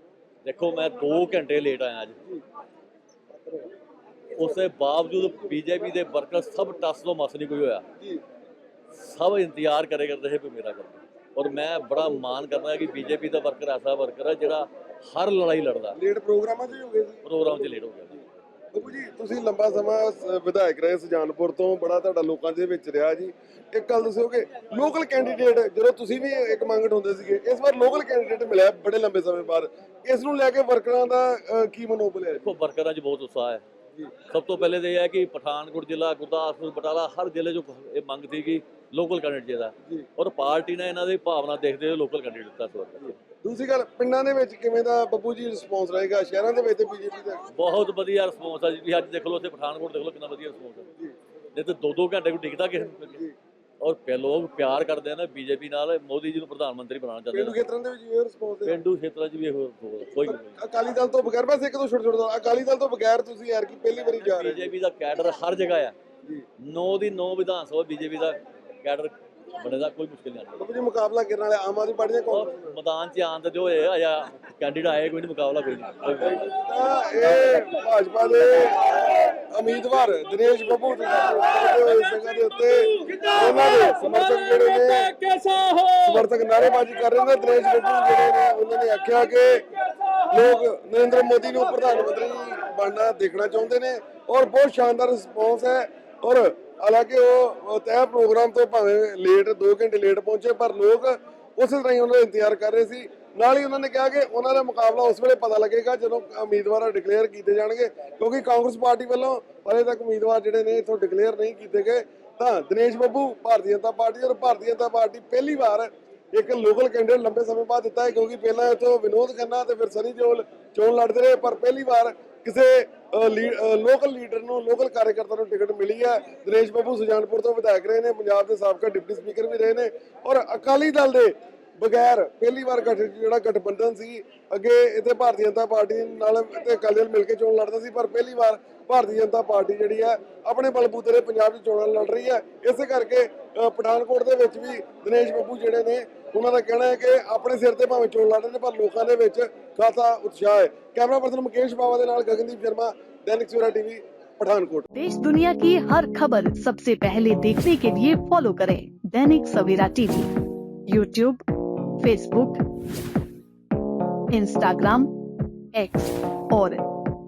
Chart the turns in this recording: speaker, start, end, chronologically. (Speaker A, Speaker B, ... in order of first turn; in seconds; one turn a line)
Speaker A: 0.4-2.2
Speaker A: 4.4-7.8
Speaker A: 8.9-16.0
Speaker B: 15.9-17.2
Speaker A: 17.2-18.4
Speaker B: 18.7-32.5
Speaker A: 32.4-33.6
Speaker A: 34.3-43.2
Speaker B: 43.4-47.5
Speaker A: 47.5-50.9
Speaker A: 51.5-53.2
Speaker A: 53.8-57.6
Speaker B: 57.3-58.8
Speaker A: 58.7-60.6
Speaker B: 60.6-64.7
Speaker A: 64.2-65.9
Speaker A: 66.6-70.7
Speaker B: 70.6-72.8
Speaker A: 72.3-76.5
Speaker B: 76.2-85.2
Speaker A: 85.2-86.0
Speaker B: 86.0-89.7
Speaker B: 90.3-154.9
Speaker C: 154.9-160.3
Speaker C: 160.9-161.4
Speaker C: 162.0-162.6
Speaker C: 164.3-165.1
Speaker C: 165.7-166.8